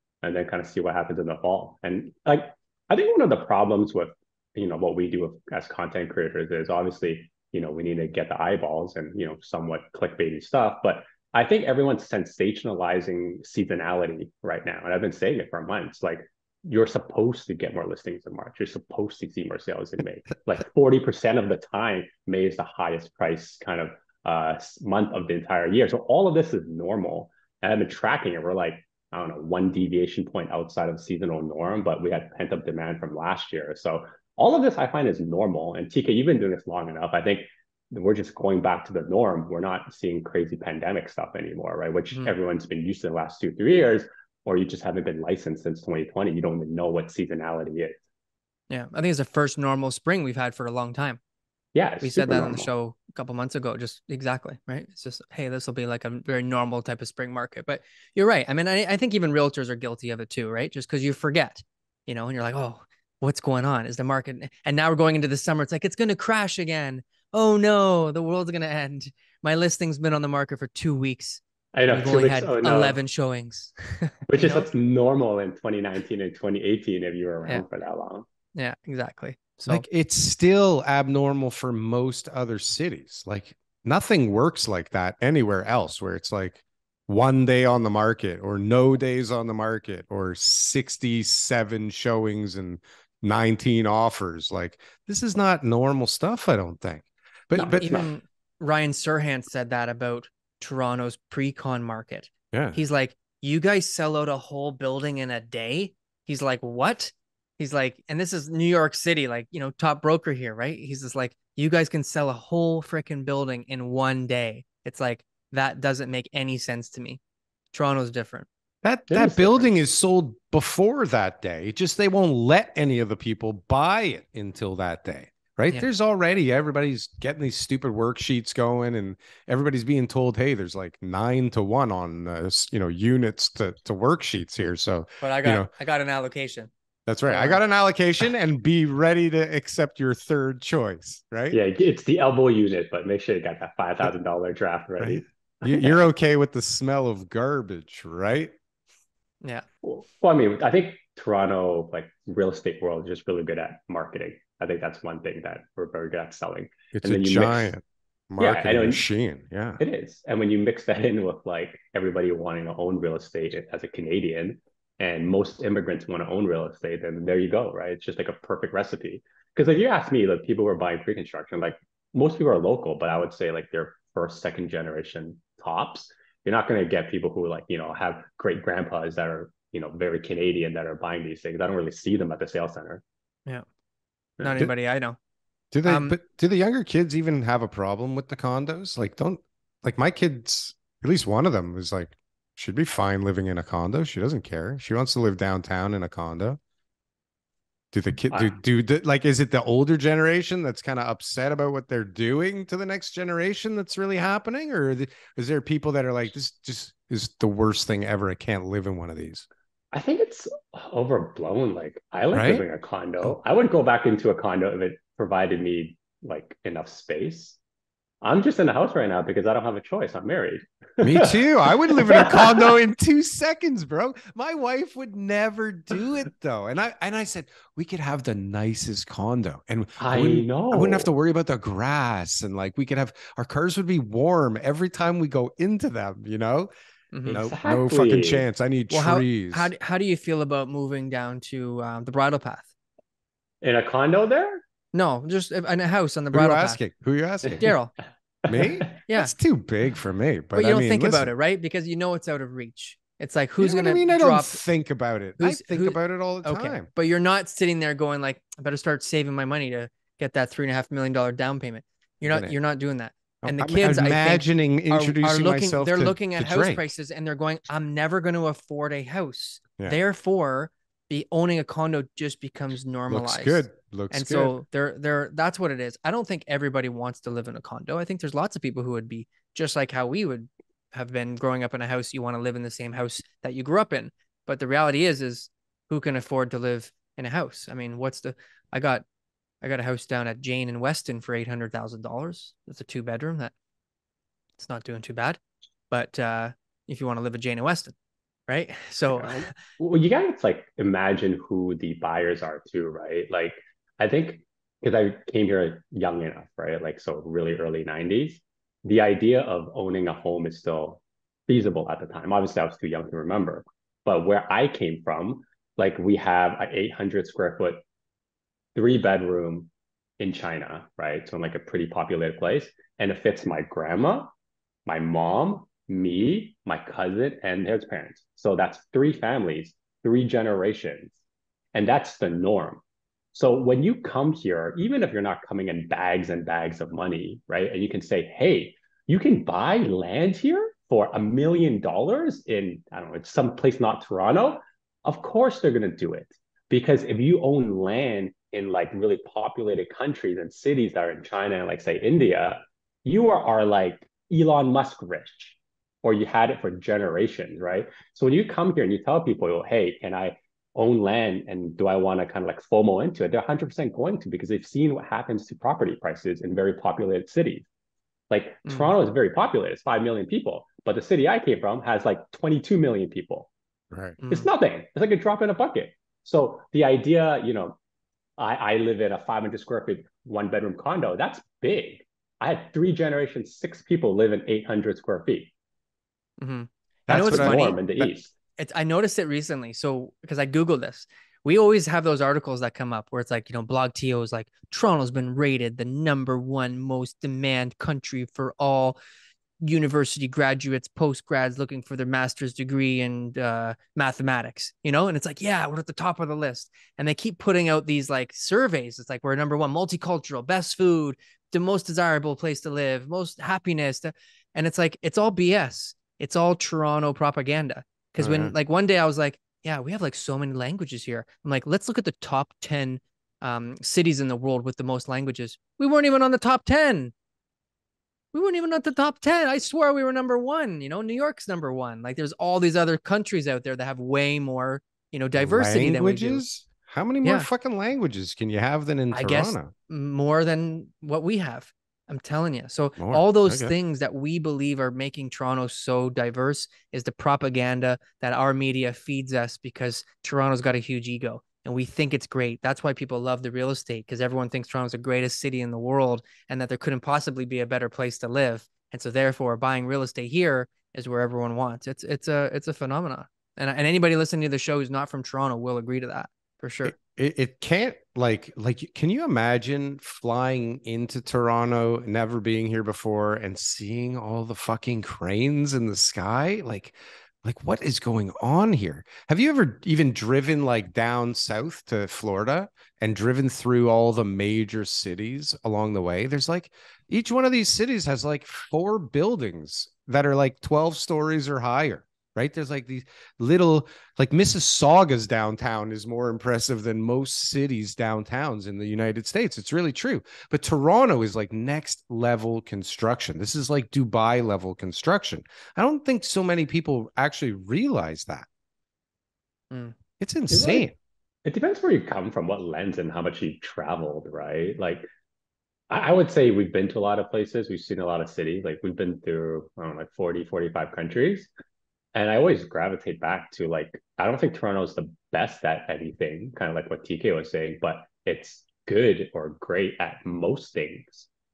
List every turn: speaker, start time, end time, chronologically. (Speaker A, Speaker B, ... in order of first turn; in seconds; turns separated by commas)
Speaker A: 0.2-48.0, Speaker B: 48.7-51.2, Speaker A: 51.7-52.7, Speaker B: 52.0-74.7, Speaker A: 71.7-73.0, Speaker A: 74.3-78.2, Speaker B: 78.5-79.8, Speaker C: 79.7-98.1, Speaker A: 97.5-98.1, Speaker B: 97.6-117.2, Speaker C: 102.5-102.8, Speaker B: 117.7-118.5, Speaker C: 118.8-135.7, Speaker A: 119.1-119.7, Speaker B: 135.2-136.7, Speaker C: 137.1-141.6, Speaker B: 137.3-137.6, Speaker A: 141.5-146.0, Speaker C: 145.0-148.5, Speaker A: 149.8-157.7, Speaker C: 156.9-159.8, Speaker A: 158.4-159.0, Speaker A: 159.8-183.0, Speaker A: 184.4-184.7, Speaker B: 184.4-185.2, Speaker C: 185.7-196.6, Speaker B: 185.8-186.2, Speaker C: 197.9-209.4, Speaker A: 198.3-198.6, Speaker A: 209.9-217.6, Speaker C: 212.3-212.6, Speaker A: 218.2-222.7, Speaker C: 221.0-236.7, Speaker A: 230.0-231.1, Speaker B: 237.1-237.4, Speaker A: 237.2-238.4, Speaker C: 237.3-239.7, Speaker B: 238.9-242.7, Speaker A: 243.6-244.6, Speaker B: 244.9-246.8, Speaker C: 246.3-247.7, Speaker B: 247.6-247.9, Speaker A: 248.4-248.9, Speaker C: 248.5-251.3, Speaker B: 249.1-249.3, Speaker B: 250.5-254.6, Speaker C: 253.6-256.9, Speaker B: 255.4-289.0, Speaker C: 262.3-262.6, Speaker C: 263.4-266.9, Speaker C: 273.1-274.6, Speaker B: 289.6-293.5, Speaker B: 294.6-297.9, Speaker B: 298.5-299.5, Speaker A: 299.1-317.8, Speaker A: 318.7-324.3, Speaker A: 324.9-331.1, Speaker A: 331.7-332.8, Speaker A: 333.3-367.6, Speaker A: 368.3-373.5, Speaker B: 368.7-368.9, Speaker C: 373.9-374.2, Speaker B: 374.2-374.5, Speaker A: 374.3-377.8, Speaker A: 378.4-385.5, Speaker B: 386.4-387.8, Speaker C: 387.1-388.1, Speaker A: 387.1-388.3, Speaker B: 388.6-399.0, Speaker B: 399.6-427.1, Speaker C: 418.2-418.5, Speaker B: 428.3-436.4, Speaker C: 435.4-439.7, Speaker B: 439.1-466.9, Speaker C: 443.0-443.7, Speaker C: 466.9-508.5, Speaker C: 510.2-510.9, Speaker A: 510.5-510.9, Speaker A: 511.4-515.0, Speaker A: 515.9-521.5, Speaker A: 522.1-531.3